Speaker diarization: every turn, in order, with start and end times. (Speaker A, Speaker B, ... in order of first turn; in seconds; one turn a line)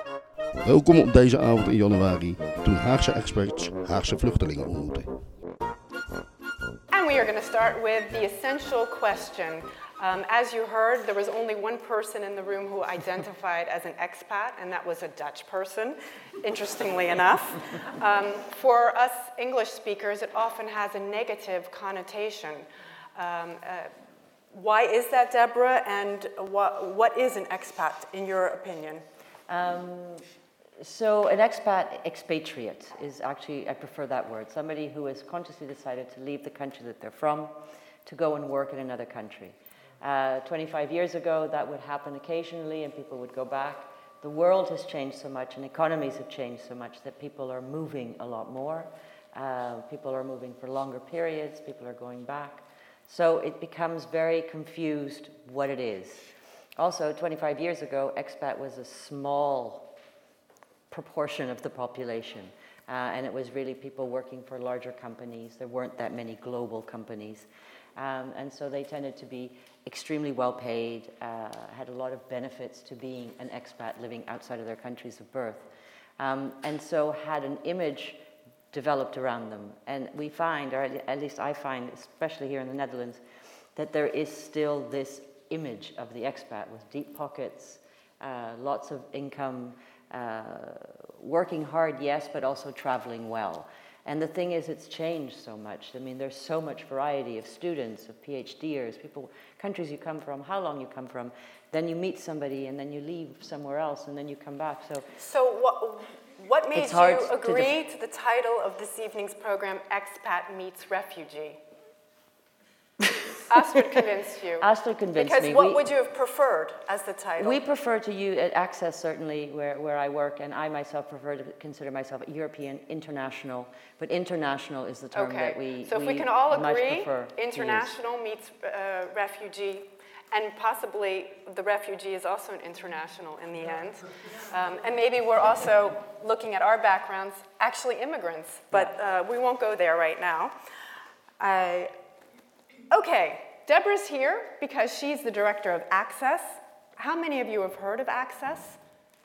Speaker A: 0.6-5.1
Speaker B: 6.9-23.9
Speaker B: 24.5-29.0
Speaker C: 29.5-30.3
Speaker C: 30.8-59.9
Speaker C: 60.9-75.7
Speaker C: 76.2-83.2
Speaker C: 83.8-105.1
Speaker B: 105.2-111.6
Speaker C: 106.7-107.7
Speaker B: 113.5-117.6
Speaker C: 114.6-115.8
Speaker C: 117.4-127.9
Speaker B: 125.1-140.5
Speaker B: 141.4-141.9
Speaker B: 142.9-148.8